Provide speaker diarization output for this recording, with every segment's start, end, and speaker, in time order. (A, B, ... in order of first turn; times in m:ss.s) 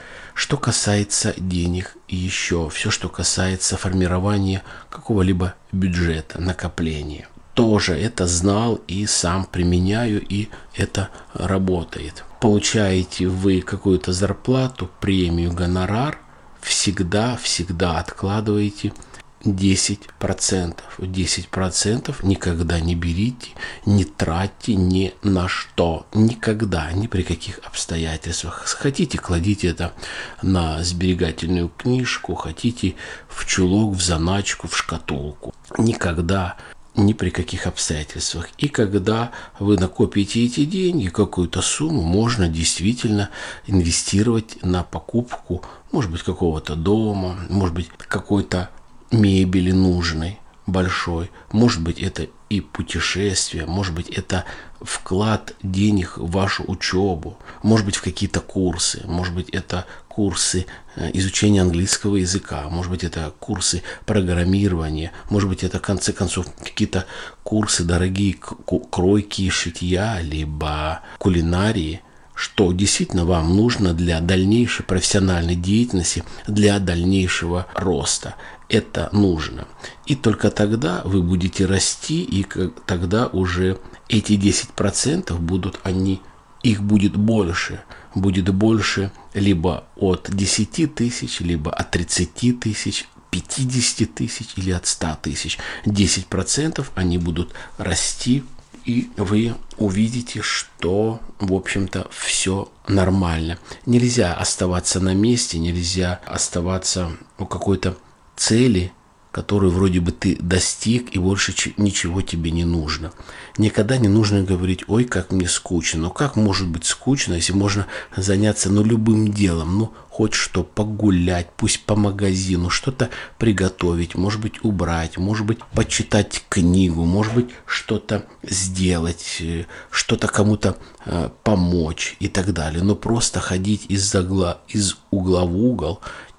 0:00.3-0:18.9 A
0:19.4-2:16.0 A